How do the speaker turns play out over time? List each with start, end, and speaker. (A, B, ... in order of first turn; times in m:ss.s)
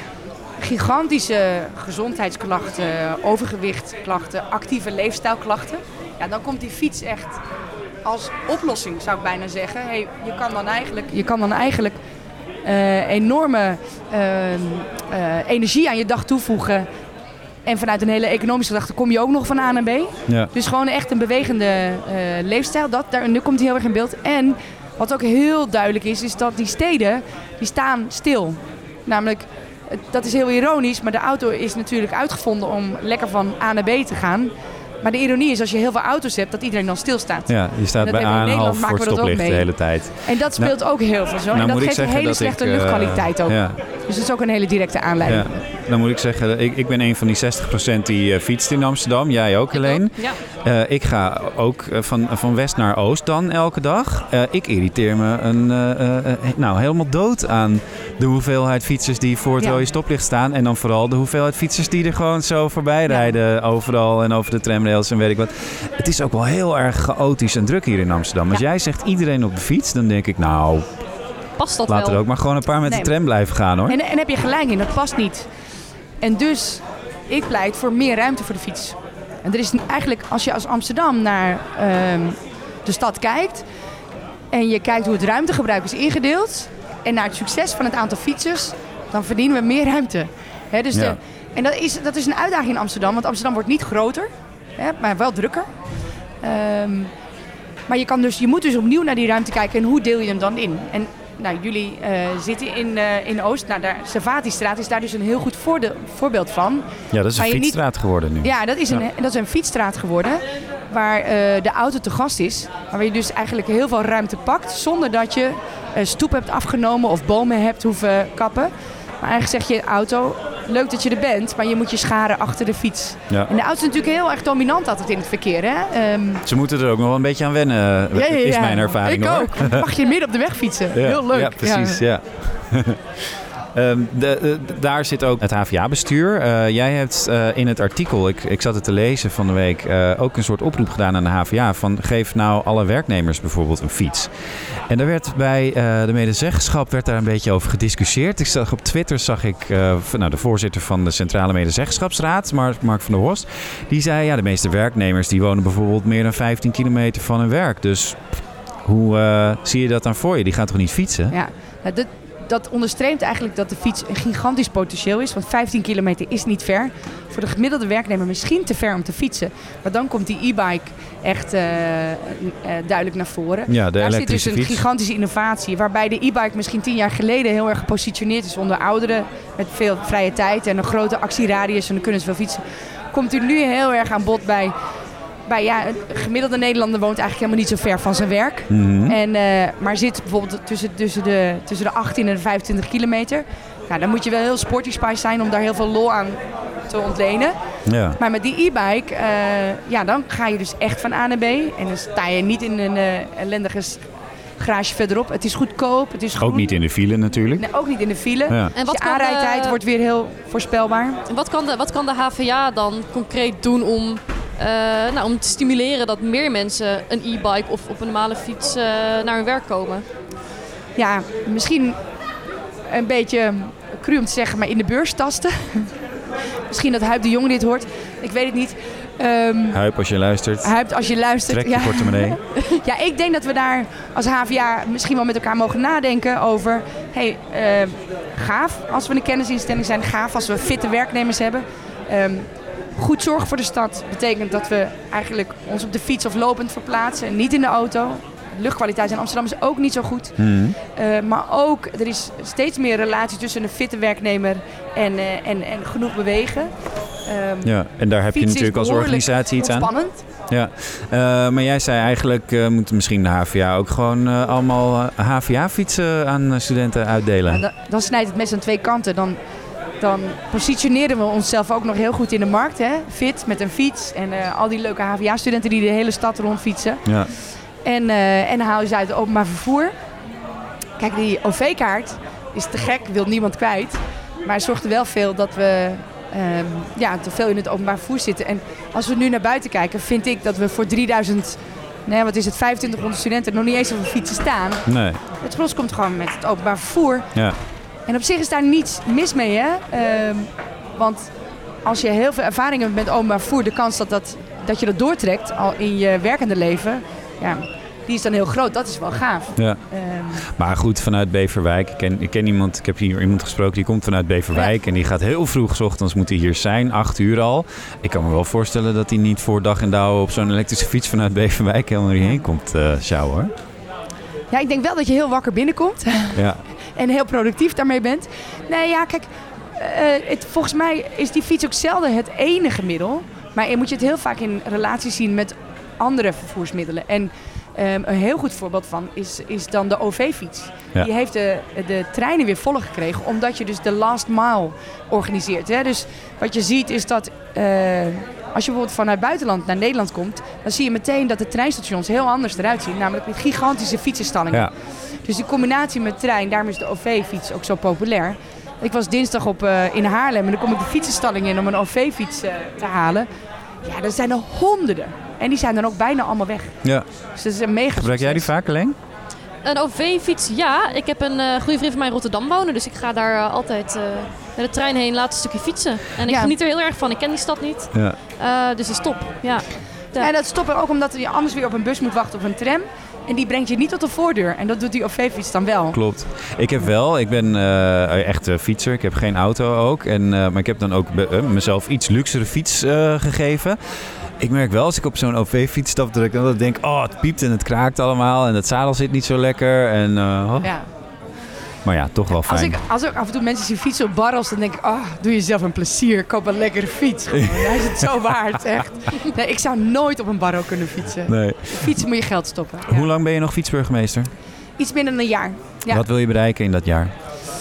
0:00.6-0:07.4 A
0:08.0-0:12.0 A
0:12.6-0:16.9 A
0:17.7-0:45.5 A
0:37.5-0:40.7 B
0:41.5-0:43.8 B
0:45.2-1:10.9 B
0:49.7-0:50.4 C
1:03.1-1:03.4 A
1:11.6-1:12.2 C
1:11.9-1:14.0 B
1:12.8-1:13.1 A
1:13.9-1:15.5 A
1:16.2-1:23.6 A
1:24.5-1:35.7 A
1:36.4-1:37.1 A
1:37.9-1:46.9 A
1:47.1-1:49.0 B
1:47.4-1:47.8 A
1:48.4-2:06.4 A
2:06.5-2:09.8 B
2:08.1-2:12.0 A
2:10.9-2:13.0 B
2:13.8-2:24.3 B
2:24.9-2:41.3 B
2:41.3-3:04.7 A
2:53.7-2:54.8 B
3:05.5-3:17.6 A
3:08.7-3:09.2 B
3:17.9-3:18.2 B
3:18.2-3:24.0 A
3:24.6-3:26.7 A
3:26.4-3:27.6 B
3:27.6-3:31.2 A
3:28.8-3:29.8 C
3:31.3-3:40.1 C
3:41.0-3:42.0 A
3:42.9-3:45.9 A
3:46.7-3:49.8 A
3:49.7-3:50.8 B
3:50.6-4:10.4 A
3:51.5-3:52.4 B
4:10.4-4:10.8 B
4:10.9-4:16.7 A
4:17.2-4:17.7 A
4:17.6-4:19.9 B
4:18.3-4:20.2 A
4:20.5-4:27.6 B
4:27.5-4:29.4 A
4:30.0-4:37.1 A
4:37.8-4:39.9 A
4:41.0-4:57.3 A
4:54.9-4:55.2 B
4:58.1-5:01.3 A
5:01.8-5:10.4 A
5:10.4-5:23.5 B
5:24.5-5:54.7 A
5:26.4-5:26.6 B
5:55.2-6:03.3 A
6:03.8-6:06.8 A
6:07.4-6:08.5 A
6:08.0-6:09.0 B
6:09.6-6:20.3 C
6:16.2-6:16.5 A
6:20.2-6:26.0 A
6:25.9-6:33.8 B
6:34.4-6:40.7 B
6:40.6-6:40.9 A
6:41.8-6:42.8 B
6:42.3-6:53.1 A
6:51.3-6:52.0 B
6:52.9-6:54.3 B
6:54.8-6:56.0 A
6:55.9-6:57.1 B